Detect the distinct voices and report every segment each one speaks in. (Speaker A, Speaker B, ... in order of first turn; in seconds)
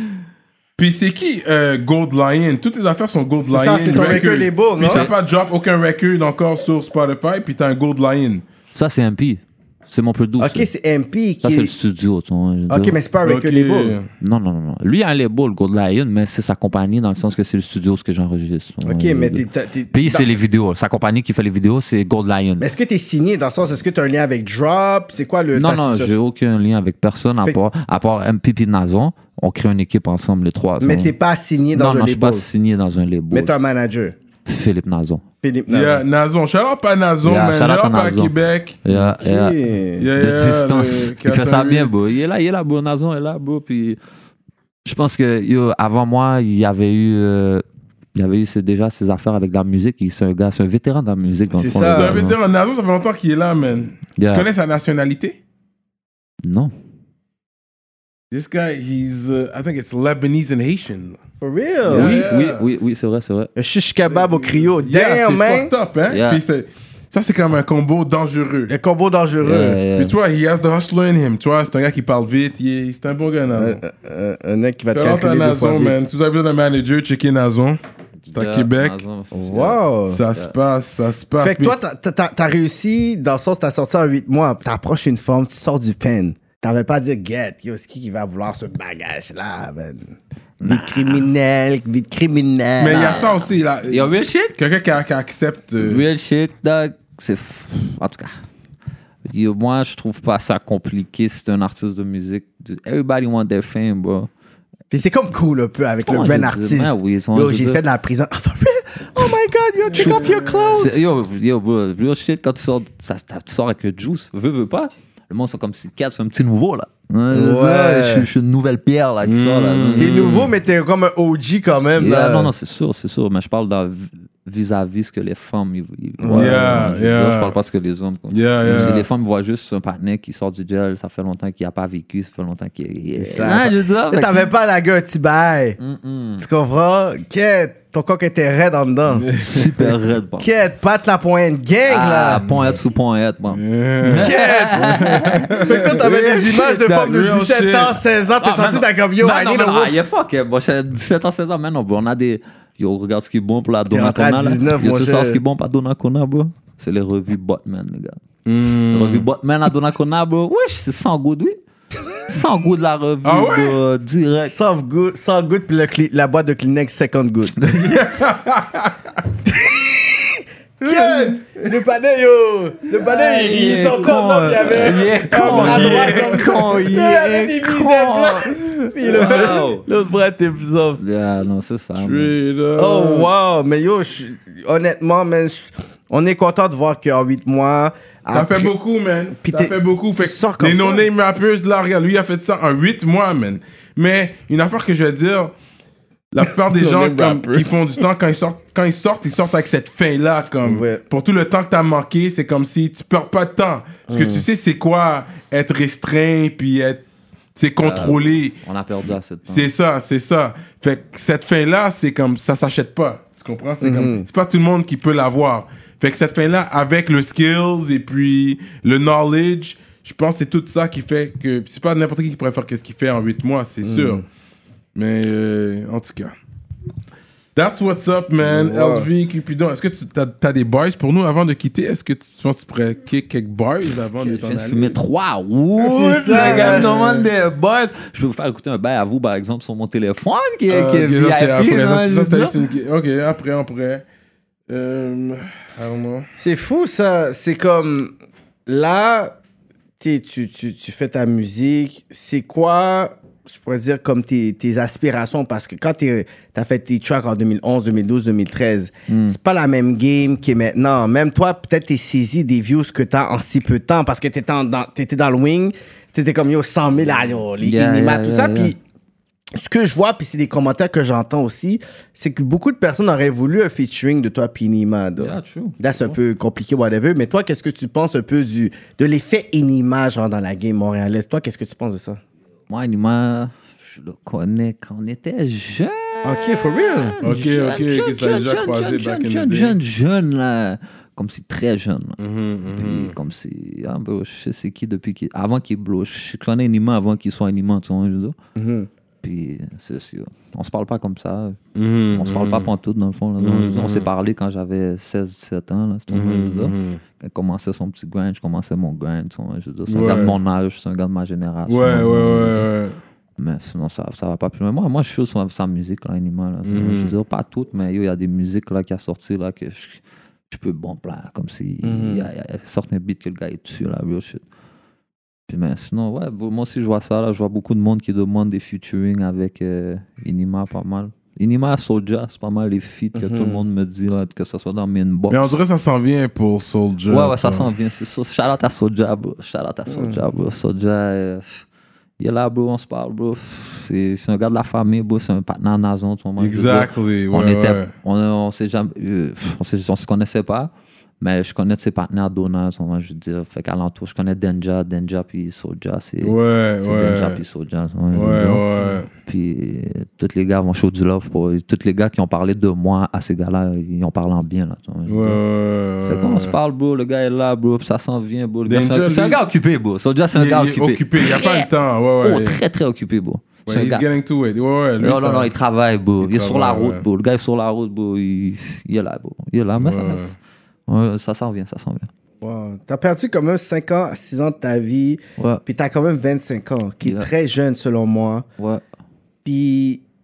Speaker A: 0.8-8.4, 13.2-14.1, 35.7-38.8, 40.0-42.0, 51.8-55.4, 58.3-61.2, 61.9-62.7, 64.1-68.7, 70.0-73.8, 74.9-77.8, 78.3-79.0, 80.1-81.8, 92.8-96.0, 109.9-110.9, 119.2-120.5, 126.3-127.5, 128.3-129.1, 139.1-139.7, 143.5-148.0, 158.4-159.3, 163.2-163.8, 167.8-169.2, 170.9-171.4, 175.4-176.4, 182.0-183.3, 188.3-195.5, 196.3-208.6, 209.5-224.2, 224.9-226.3, 227.6-235.0, 236.2-237.3, 240.7-244.0, 244.7-246.3, 287.2-289.8, 292.2-293.1, 301.8-302.7, 303.4-304.1, 306.1-307.0, 309.9-310.4, 311.7-313.0, 316.7-317.1, 335.3-337.7, 346.4-347.9, 356.2-357.4, 358.1-359.1, 365.1-366.6, 368.7-369.4, 370.3-372.6, 373.7-375.5, 376.2-377.1, 379.8-380.3
Speaker B: 3.5-5.1, 10.4-11.7, 12.7-13.9, 18.8-20.3, 22.6-26.1, 30.8-32.5, 33.3-34.2, 35.4-36.0, 39.2-40.1, 51.5-52.2, 61.4-62.2, 63.6-65.7, 68.7-69.8, 73.5-76.0, 79.3-80.2, 81.4-93.3, 104.9-111.0, 117.3-118.3, 120.0-122.5, 126.2-126.9, 133.2-135.8, 136.4-139.3, 140.4-142.4, 144.2-144.9, 145.5-149.9, 153.9-155.4, 164.4-167.6, 169.5-181.0, 182.8-188.7, 189.4-191.1, 196.4-198.0, 200.6-201.0, 204.1-204.5, 213.8-214.3, 223.8-224.2, 228.4-229.1, 235.8-236.9, 246.4-248.1, 248.7-249.4, 250.0-268.8, 269.5-282.2, 286.2-287.2, 298.6-298.9, 321.8-322.2, 333.2-333.6, 339.9-340.2, 382.4-388.5, 389.4-390.0
Speaker C: 3.9-4.2, 4.8-5.1, 8.7-10.7, 11.4-13.0, 14.2-22.7, 25.6-31.1, 31.7-33.5, 34.5-35.2, 37.2-38.3, 38.9-39.6, 40.2-44.0, 44.9-47.6, 48.2-52.4, 54.2-54.5, 56.4-56.7, 61.9-63.5, 66.1-66.4, 69.4-70.2, 78.3-80.5, 90.6-91.3, 92.9-94.6, 95.8-98.3, 99.3-104.3, 106.0-107.8, 110.7-120.5, 122.0-134.4, 135.8-136.4, 139.4-140.5, 141.9-146.2, 148.4-158.2, 158.9-161.6, 162.3-164.6, 167.7-168.1, 173.0-179.8, 181.0-182.4, 207.8-209.7, 234.2-242.5, 259.1-259.4, 267.6-268.7, 275.2-276.2, 282.7-292.2, 292.7-298.4, 299.2-301.6, 302.1-312.7, 313.4-324.4, 325.5-335.6, 337.1-341.6, 342.2-365.4, 366.1-371.7, 372.2-374.1, 375.0-380.3, 380.9-382.1, 387.0-387.3, 388.6-388.8